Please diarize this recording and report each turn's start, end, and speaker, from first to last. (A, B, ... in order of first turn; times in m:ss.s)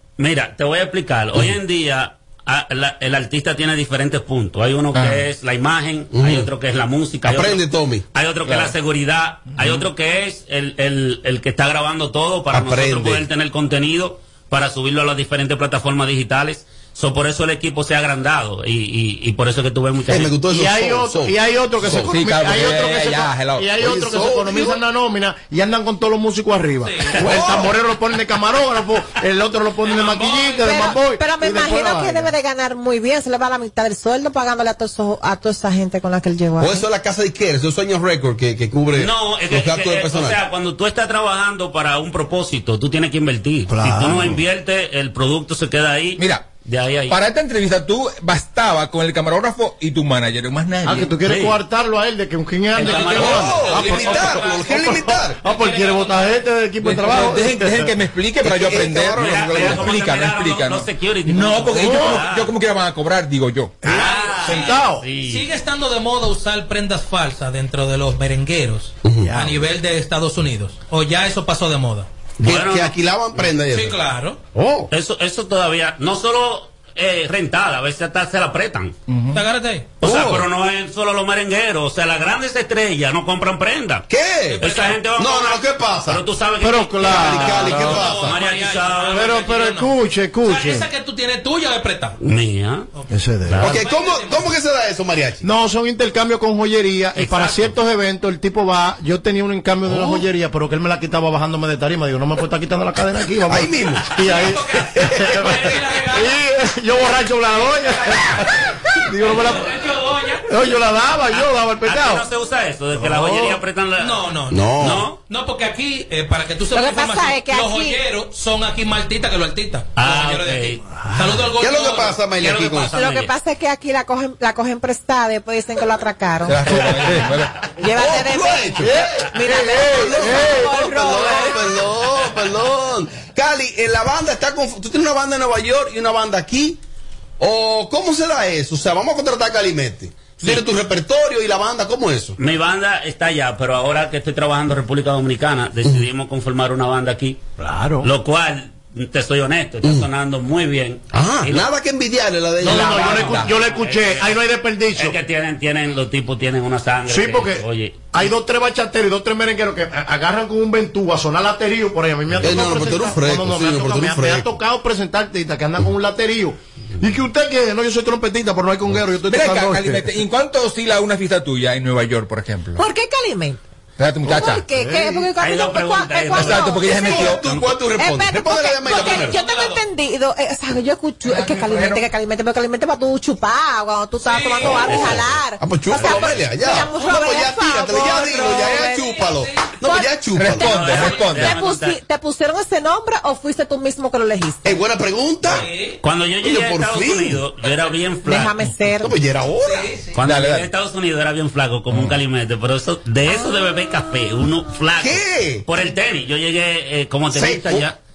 0:00.2-0:20.4 A
0:05.0-0:05.3 B
0:06.1-0:06.5 C
0:07.3-0:08.0 C
0:08.5-0:08.7 B
0:12.5-0:13.2 C
0:20.1-0:22.1 C
0:20.4-0:32.3 D
0:22.0-0:23.7 B
0:23.8-0:24.8 C
0:26.8-0:27.2 E
0:27.2-0:27.7 C
0:29.9-0:30.9 E
0:30.6-0:36.8 F
0:36.6-0:40.4 C
0:39.0-0:47.2 A
0:43.7-0:44.4 D
0:46.2-0:46.5 B
0:47.1-0:51.2 B
0:50.8-0:58.0 D
0:51.2-0:51.6 A
0:52.7-0:54.1 A
0:52.8-0:56.4 E
0:53.1-0:55.4 C
0:56.8-1:03.8 B
0:58.4-0:59.9 C
0:59.2-1:02.5 A
1:01.7-1:02.3 D
1:03.8-1:05.1 D
1:03.8-1:05.4 A
1:03.9-1:12.1 E
1:09.0-1:09.3 C
1:09.3-1:09.6 D
1:12.4-1:14.0 C
1:12.4-1:13.0 A
1:13.7-1:14.4 E
1:14.5-1:14.9 C
1:14.9-1:19.0 A
1:19.1-1:19.4 B
1:19.3-1:19.9 E
1:20.0-1:24.0 A
1:20.0-1:20.5 C
1:24.1-1:24.7 C
1:24.5-1:25.0 E
1:24.6-1:29.3 A
1:25.2-1:26.2 C
1:26.6-1:28.1 D
1:27.0-1:28.4 C
1:27.2-1:29.9 E
1:29.0-1:30.8 D
1:30.4-1:32.2 E
1:32.2-1:32.9 A
1:32.9-1:34.5 E
1:33.1-1:33.8 D
1:33.6-1:35.4 C
1:35.4-1:49.7 D
1:37.2-1:37.7 A
1:37.2-1:37.6 E
1:39.9-1:40.3 C
1:43.5-1:44.1 C
1:44.2-1:46.4 E
1:47.5-1:48.7 E
1:49.2-1:50.4 E
1:50.5-1:52.3 D
1:51.8-1:54.2 A
1:53.0-1:53.6 D
1:54.0-2:03.0 E
1:54.5-1:55.0 C
1:54.8-1:55.2 A
1:56.7-1:58.0 F
2:00.0-2:00.8 A
2:01.6-2:03.0 C
2:02.4-2:03.3 A
2:03.0-2:07.0 F
2:06.5-2:07.5 B
2:06.7-2:07.2 C
2:07.8-2:11.6 F
2:07.9-2:16.8 C
2:09.0-2:10.7 D
2:17.4-2:22.4 C
2:22.4-2:27.4 A
2:27.6-2:28.0 D
2:28.0-2:31.7 A
2:31.1-2:33.4 C
2:32.6-2:35.2 D
2:32.7-2:34.4 A
2:33.2-2:33.6 B
2:35.0-2:38.3 A
2:37.1-2:50.2 D
2:42.4-2:44.5 C
2:49.2-2:52.8 B
2:52.8-2:53.6 F
2:54.0-2:54.7 B
2:54.3-2:57.4 F
2:54.4-2:55.3 D
2:55.4-2:57.5 A
2:56.3-2:57.4 B
2:57.1-2:59.4 C
2:58.0-3:09.2 F
2:58.8-2:59.8 E
3:01.3-3:02.0 B
3:04.2-3:05.0 E
3:04.7-3:05.2 A
3:04.8-3:11.0 C
3:06.0-3:06.4 A
3:09.0-3:09.7 E
3:09.8-3:10.1 F
3:10.4-3:11.6 B
3:10.5-3:12.0 A
3:11.3-3:14.8 F
3:14.6-3:15.7 C
3:15.5-3:16.0 E
3:16.0-3:18.6 A
3:16.4-3:17.4 C
3:18.2-3:19.1 F
3:19.0-3:19.9 C
3:19.6-3:20.2 E
3:20.2-3:28.0 A
3:20.2-3:20.7 B
3:25.0-3:25.6 C
3:27.3-3:27.8 C